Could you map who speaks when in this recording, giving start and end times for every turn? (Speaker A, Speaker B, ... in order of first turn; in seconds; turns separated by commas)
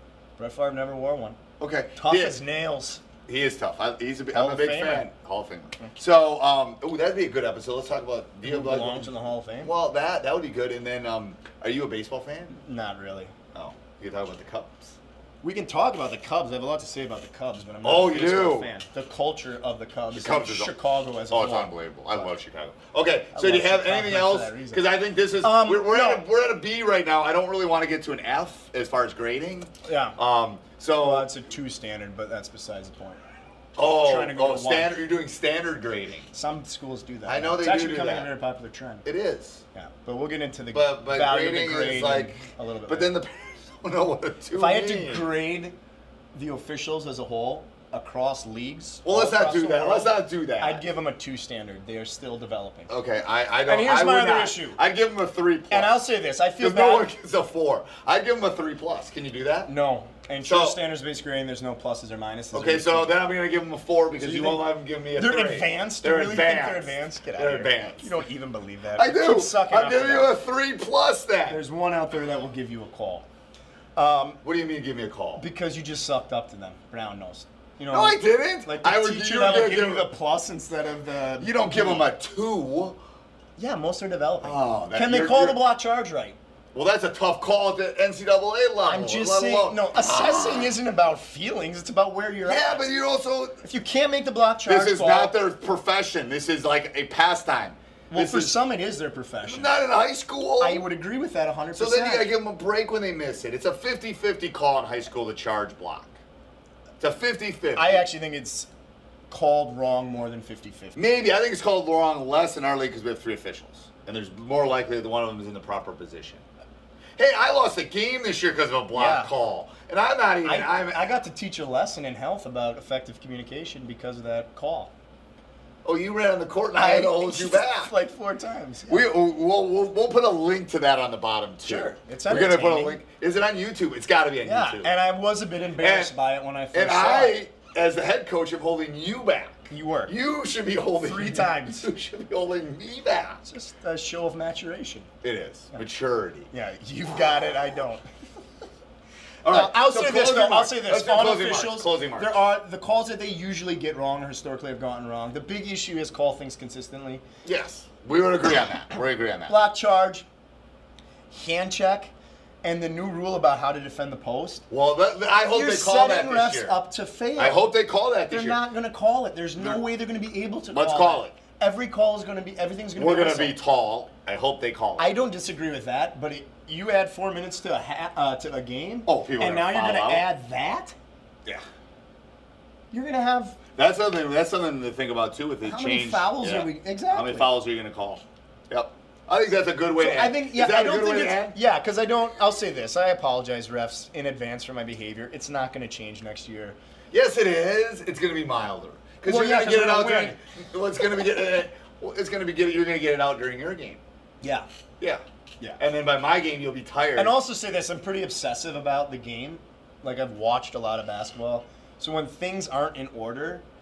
Speaker A: 0.4-1.4, Speaker B: 1.6-2.4, Speaker A: 2.0-3.0, Speaker B: 3.3-12.6, Speaker A: 4.3-5.1, Speaker A: 8.4-9.7, Speaker A: 12.5-13.3, Speaker B: 13.5-15.0, Speaker A: 15.4-22.3, Speaker B: 17.8-18.7, Speaker B: 20.1-20.8, Speaker B: 21.3-31.3, Speaker A: 23.4-24.9, Speaker A: 25.4-26.2, Speaker A: 29.9-30.2, Speaker A: 31.0-33.2, Speaker B: 33.8-36.3, Speaker A: 33.9-34.9, Speaker A: 36.3-39.0, Speaker B: 37.3-38.3, Speaker B: 39.0-39.6, Speaker A: 39.7-43.1, Speaker B: 40.7-45.3, Speaker A: 44.5-45.8, Speaker A: 46.3-52.9, Speaker B: 49.0-50.8, Speaker B: 52.9-56.0, Speaker A: 53.7-54.8, Speaker A: 55.7-57.1, Speaker B: 56.6-59.7, Speaker A: 59.7-63.1, Speaker B: 60.4-60.8, Speaker B: 62.5-68.1, Speaker A: 64.2-70.3, Speaker B: 69.0-71.6, Speaker A: 71.5-73.3, Speaker A: 74.0-74.4, Speaker B: 74.4-75.5, Speaker A: 75.4-82.1, Speaker B: 77.9-80.1, Speaker B: 81.4-83.0, Speaker A: 83.6-86.4, Speaker B: 84.4-85.6, Speaker B: 86.8-90.7, Speaker A: 88.9-92.9, Speaker B: 92.5-93.6, Speaker A: 93.6-95.3, Speaker B: 94.7-98.5, Speaker A: 98.1-99.7, Speaker B: 99.5-100.8, Speaker A: 100.6-102.3, Speaker B: 101.8-106.2, Speaker B: 107.0-108.0, Speaker A: 107.8-108.7, Speaker A: 109.3-111.0, Speaker B: 111.0-116.4, Speaker B: 117.2-121.1, Speaker A: 118.9-119.3, Speaker A: 120.5-124.9, Speaker B: 125.8-127.9, Speaker A: 126.8-129.1, Speaker B: 128.9-134.9, Speaker A: 131.7-133.0, Speaker A: 134.4-137.4, Speaker B: 135.8-136.1, Speaker B: 136.7-143.4, Speaker A: 139.7-140.2, Speaker A: 141.0-141.9, Speaker A: 143.4-145.1, Speaker B: 145.2-146.5, Speaker A: 146.5-148.1, Speaker B: 149.4-152.4, Speaker A: 149.5-157.2, Speaker B: 157.4-159.6, Speaker A: 159.5-160.3, Speaker A: 161.3-162.1, Speaker A: 162.6-164.7, Speaker B: 164.7-166.8, Speaker A: 165.5-167.7, Speaker B: 167.4-168.6, Speaker A: 168.3-173.6, Speaker B: 169.6-169.8, Speaker B: 170.7-171.4, Speaker B: 173.0-175.1, Speaker A: 175.0-181.0, Speaker B: 179.1-180.3, Speaker A: 182.9-183.6, Speaker B: 183.8-191.6, Speaker A: 185.6-187.5, Speaker A: 190.0-196.8, Speaker B: 197.1-204.0, Speaker A: 199.2-200.4, Speaker A: 204.4-204.7, Speaker B: 205.8-207.3, Speaker A: 207.2-213.7